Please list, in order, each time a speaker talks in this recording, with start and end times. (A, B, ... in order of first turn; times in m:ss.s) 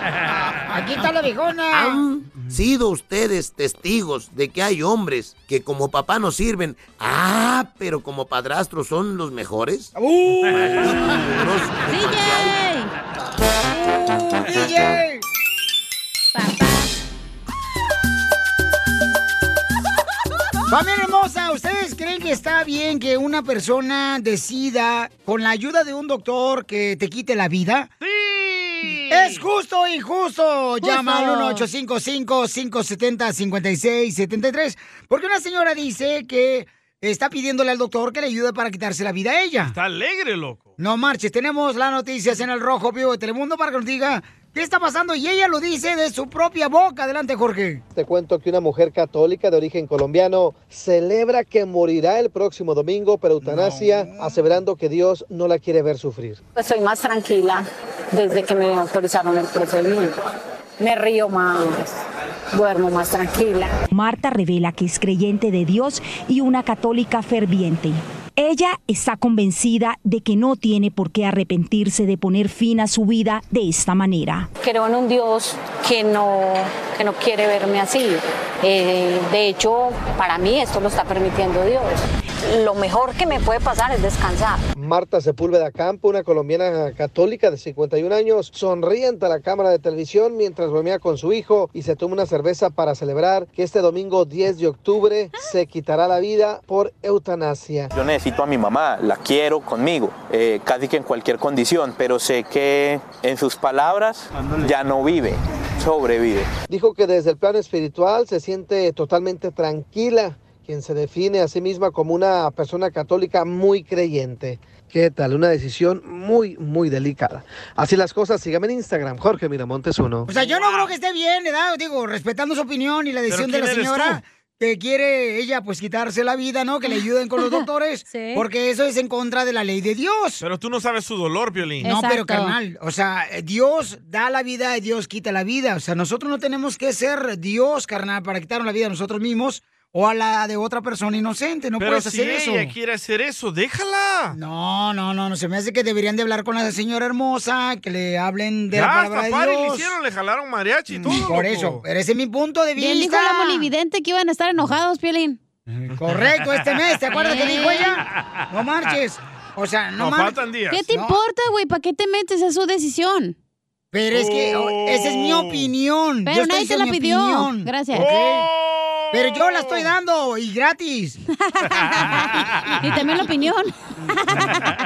0:00.3-0:02.0 A
0:01.7-0:09.9 B
0:10.0-0:11.1 A
0:10.5-0:12.6 B
0:11.8-0:12.9 C
0:14.1-0:15.2 A
0:16.3-0:16.9 C
0:20.7-0:27.9 A
0:28.0-0:29.4 D
0:29.1-0:39.7 A
0:30.8-0:31.7 C
0:39.6-0:40.7 D
0:40.8-0:47.8 A
0:47.9-0:56.4 E
0:53.4-0:54.2 A
0:56.6-1:00.1 F
1:00.8-1:02.0 F
1:02.5-1:03.7 F
1:03.9-1:14.5 G
1:14.6-1:24.7 F
1:24.7-1:37.9 E
1:37.9-1:46.5 H
1:46.7-2:00.3 E
2:00.3-2:10.4 A
2:00.3-2:00.9 D
2:03.3-2:04.2 D
2:07.4-2:08.4 C
2:10.4-2:11.9 D
2:11.8-2:12.5 C
2:11.8-2:22.7 A
2:21.8-2:24.4 D
2:24.3-2:29.9 A
2:28.7-2:31.8 D
2:31.0-2:33.7 A
2:32.8-2:35.4 C
2:35.7-2:40.3 A
2:37.1-2:37.9 C
2:40.0-2:40.8 D
2:40.7-2:43.3 C
2:40.9-2:41.2 A
2:43.9-2:48.5 A
2:44.1-2:45.7 D
2:46.2-2:48.1 C
2:47.9-2:49.9 D
2:49.1-2:51.2 A
2:51.6-2:52.3 C
2:52.8-2:54.6 C